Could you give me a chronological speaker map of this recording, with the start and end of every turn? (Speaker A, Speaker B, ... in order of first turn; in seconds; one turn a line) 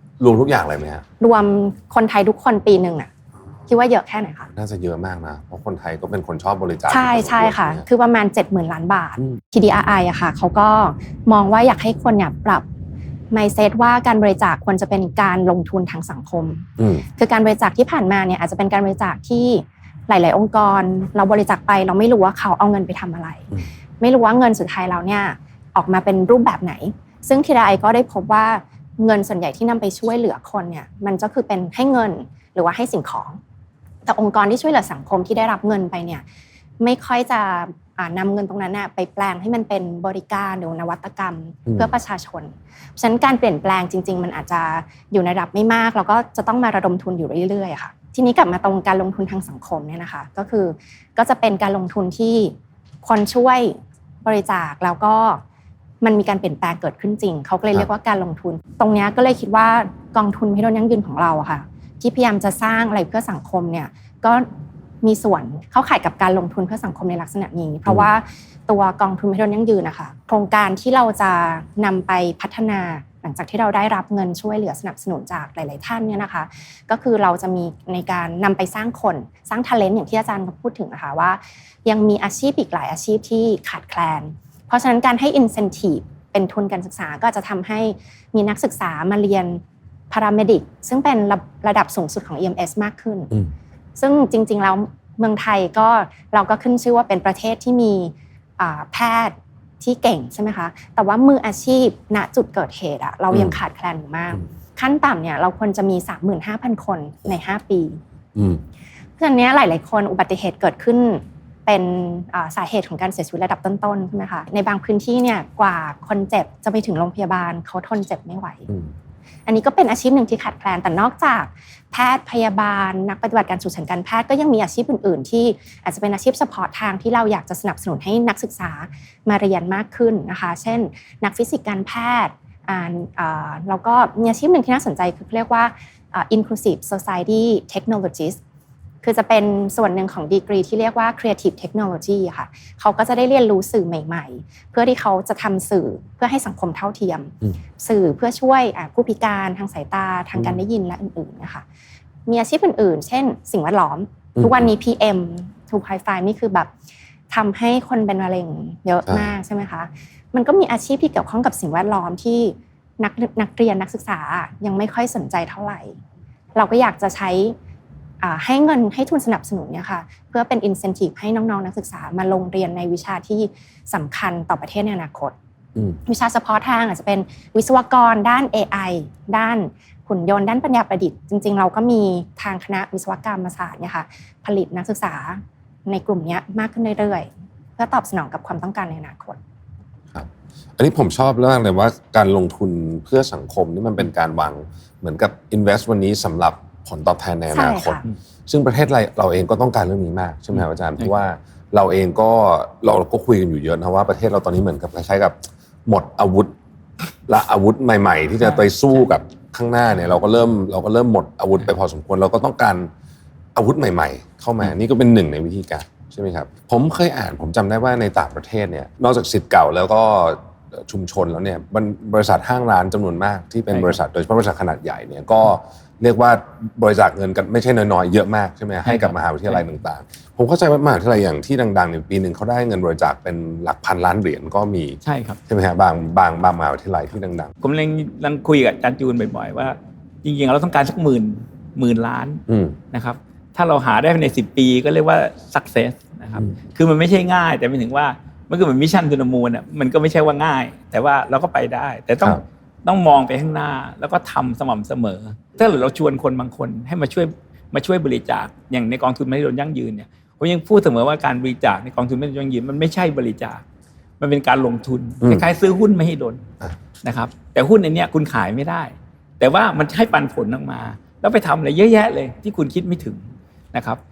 Speaker A: 0.2-1.0
Speaker B: 1.2-3.1
Speaker B: 3.7-4.5
Speaker A: 4.5-7.8
Speaker B: 6.9-12.6
Speaker B: 13.3-33.4
Speaker A: 16.8-17.0
Speaker B: 34.0-36.2
Speaker B: 36.8-55.4
Speaker B: 56.0-64.5
Speaker B: 65.0-93.3
Speaker B: 94.0-108.0
Speaker A: 108.3-108.6
Speaker B: 109.2-118.7
Speaker B: 119.5-138.4
Speaker B: 139.0-151.6
Speaker B: 152.3-156.7
Speaker A: 154.3-154.7
Speaker B: 157.3-166.0
Speaker B: 166.6-167.6
Speaker B: 168.2-175.3
Speaker B: 176.1-189.4
Speaker A: 190.1-206.5
Speaker B: 197.5-198.0
Speaker A: 207.3-212.9
Speaker A: 213.5-237.5
Speaker C: 223.7-224.0
Speaker C: 228.8-229.6
Speaker C: 235.0-235.4
Speaker C: 237.6-263.6
Speaker A: 242.5-242.8
Speaker C: 264.2-266.5
Speaker C: 267.0-273.2
Speaker C: 273.7-274.0